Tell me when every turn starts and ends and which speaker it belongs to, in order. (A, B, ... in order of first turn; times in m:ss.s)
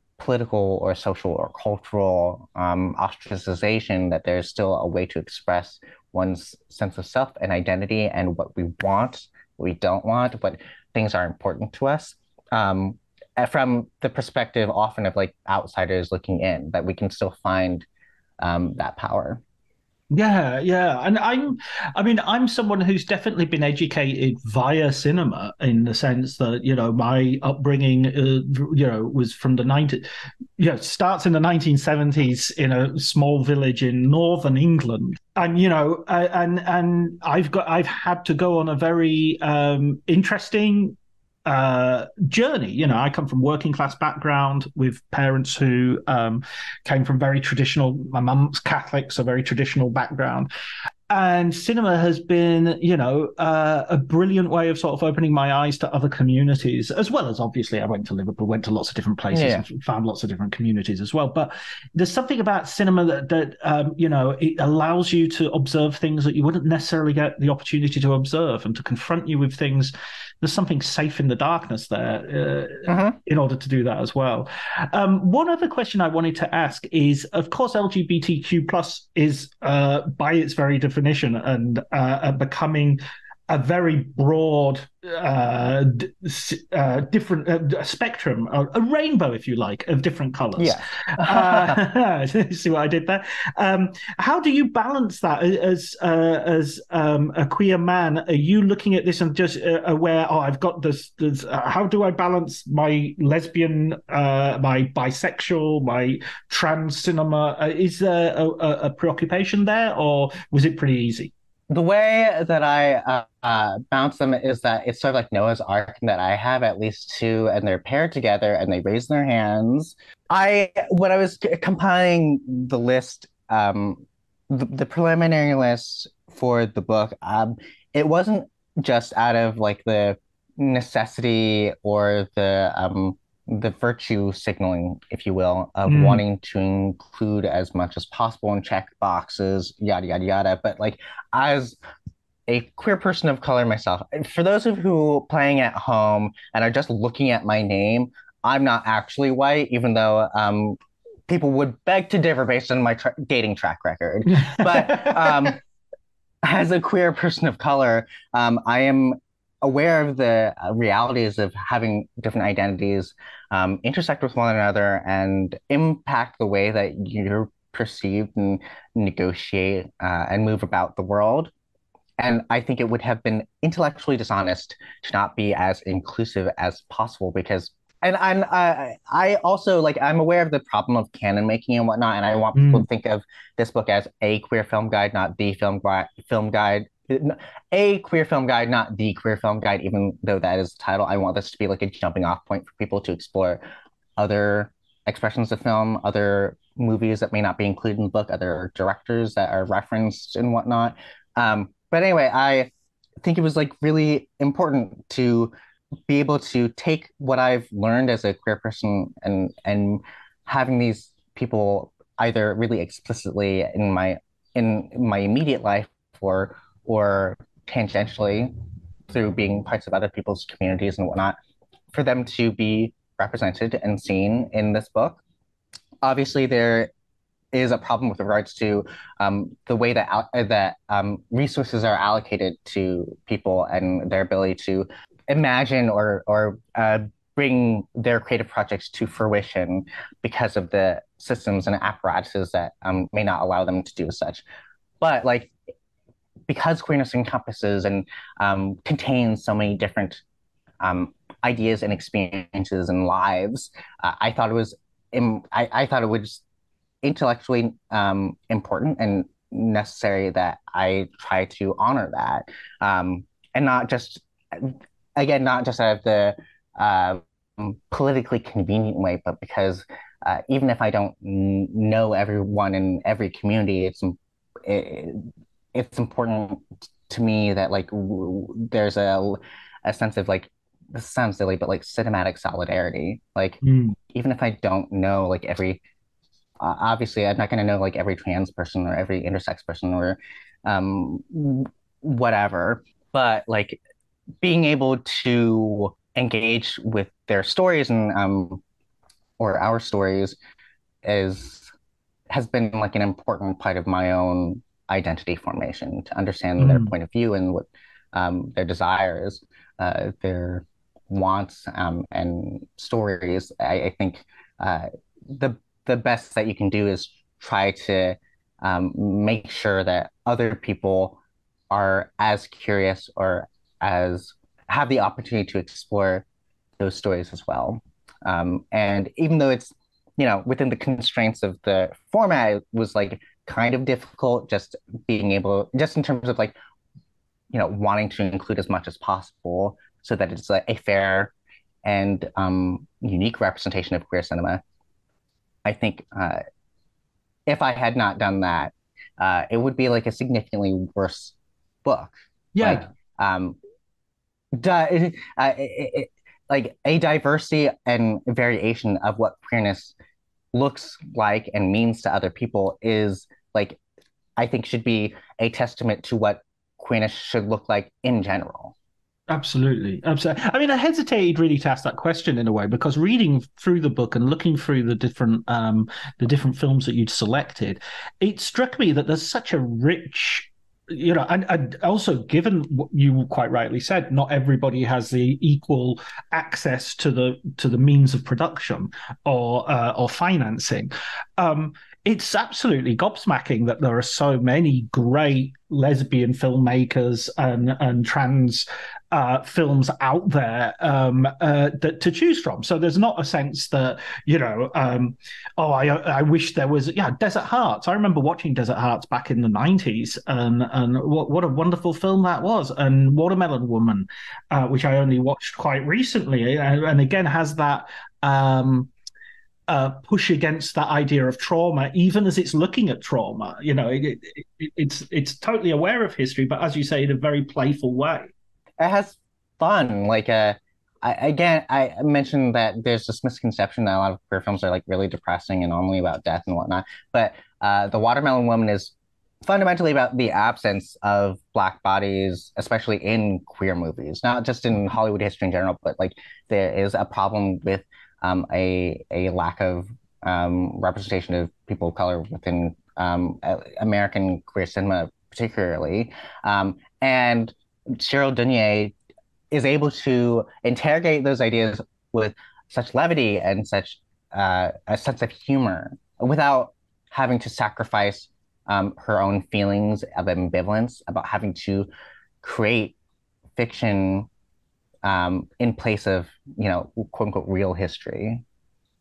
0:00.2-0:17.9 A
0:18.4-0:19.4 A
0:20.1-0:50.5 B
0:51.1-1:51.3 B
0:59.3-0:59.6 A
1:12.9-1:13.2 A
1:30.6-1:31.8 A
1:51.7-2:21.8 A
2:15.9-2:16.2 B
2:22.5-2:35.6 A
2:34.3-2:35.5 B
2:36.4-2:51.5 A
2:52.2-3:13.6 A
3:02.5-3:02.9 B
3:14.2-3:22.7 A
3:23.2-3:25.5 A
3:26.1-3:38.5 A
3:39.1-3:41.4 A
3:41.9-3:45.2 A
3:46.0-3:46.9 A
3:47.5-4:04.4 A
4:05.0-4:05.5 A
4:06.5-4:10.2 A
4:10.8-4:16.4 A
4:17.0-4:43.6 A
4:43.6-4:44.0 B
4:44.1-4:45.8 A
4:46.6-4:53.8 A
4:54.4-4:58.6 A
4:59.4-5:00.4 A
5:01.0-5:01.7 A
5:02.3-5:21.2 A
5:06.6-5:06.9 B
5:21.7-5:26.2 A
5:26.8-5:36.6 A
5:37.5-5:41.3 A
5:41.8-5:44.6 A
5:45.6-5:46.4 A
5:47.5-5:53.6 A
5:52.6-5:52.9 B
5:54.6-6:00.0 A
6:00.5-6:03.8 A
6:04.4-6:08.8 A
6:09.3-6:58.9 B
6:59.7-7:08.3 B
7:08.8-7:38.9 A
7:39.5-7:51.9 A
7:52.4-7:53.0 A
7:53.6-7:54.3 A
7:55.0-7:58.4 A